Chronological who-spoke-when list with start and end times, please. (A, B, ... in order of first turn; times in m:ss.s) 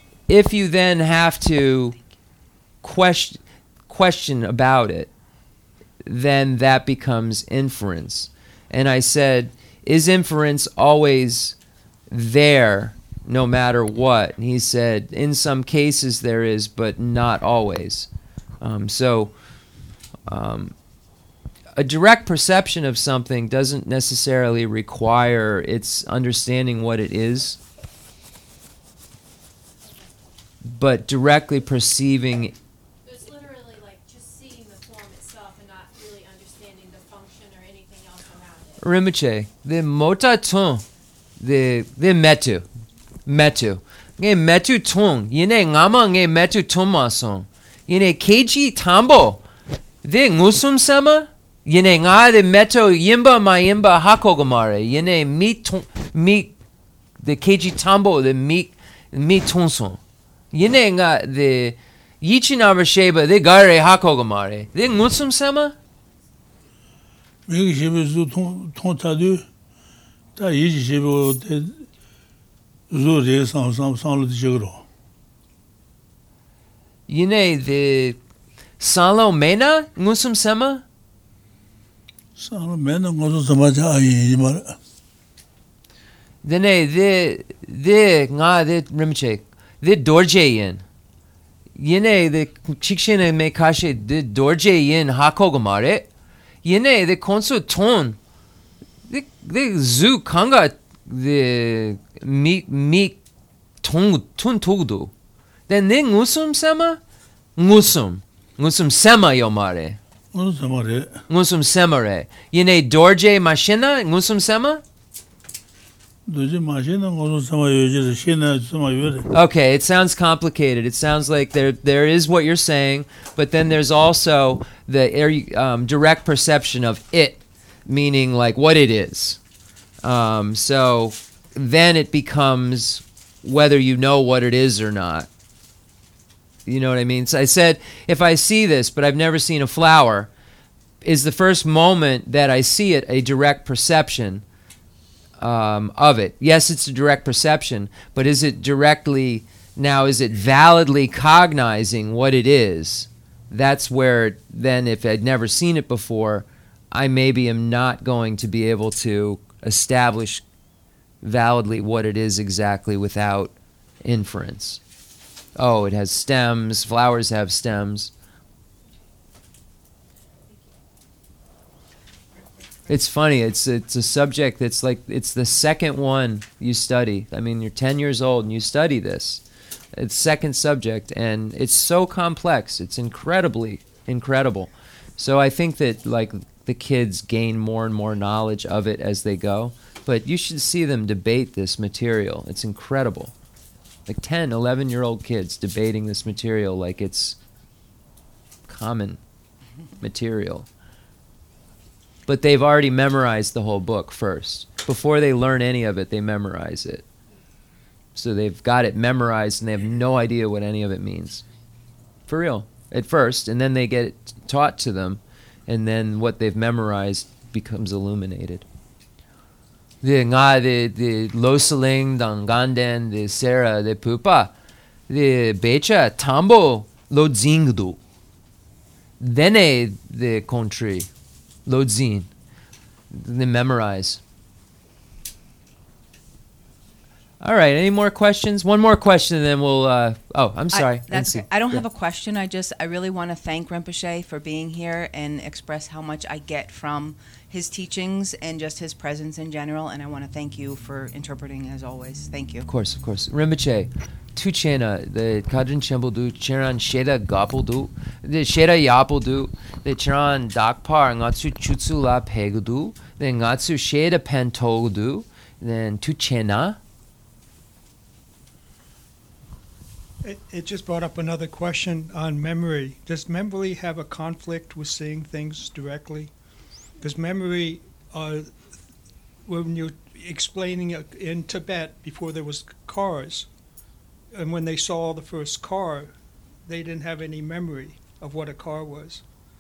0:00.3-0:02.0 A
0:02.8-0:05.1 A
0:06.0-0:11.6 A
0:12.1-0:18.1 A
0:18.6-0:19.3 A
0:20.3-0:20.7 A
0:21.8-0:27.6 A
0:30.6-0:32.5 A
0:33.0-0:38.8 B
0:38.8-0:40.8 A
0:41.4-0:42.6 A
0:43.2-0:49.4 A
0:50.0-0:56.5 A
0:57.2-1:00.0 A
1:00.5-1:05.8 A
1:07.5-1:09.4 C
1:10.4-1:11.8 C
1:12.9-1:14.8 C
1:17.1-1:18.2 A
1:18.8-1:20.8 A
1:22.4-1:24.8 C
1:26.4-1:30.8 A
1:31.8-1:36.1 A
1:36.6-1:38.2 A
1:39.1-1:43.2 A
1:43.8-1:45.1 A
1:45.7-1:47.0 A
1:47.6-1:50.0 A
1:50.3-1:51.2 C
1:51.3-1:54.8 A
1:56.3-1:59.3 C
1:59.3-2:09.4 A
2:10.0-2:15.3 A
2:16.6-2:20.3 A
2:21.0-2:24.4 A
2:25.4-2:40.4 A
2:41.2-2:44.8 A
2:45.6-2:48.1 A
2:52.9-2:59.4 A
2:59.9-3:13.3 A
3:14.1-3:17.4 A
3:18.7-3:19.2 A
3:20.0-3:20.7 A
3:22.3-3:27.0 A
3:28.2-3:31.4 A
3:32.3-3:38.6 A
3:40.0-3:44.5 A
3:45.1-3:48.0 A
3:49.2-3:51.1 A
3:51.6-3:52.3 A
3:53.1-3:54.2 A
3:57.4-4:01.9 A
4:00.7-4:12.7 D
4:12.6-4:26.8 A
4:30.2-4:36.3 E
4:37.0-4:38.5 E
4:39.4-4:43.5 E
4:44.3-4:46.1 E
4:46.6-4:49.2 E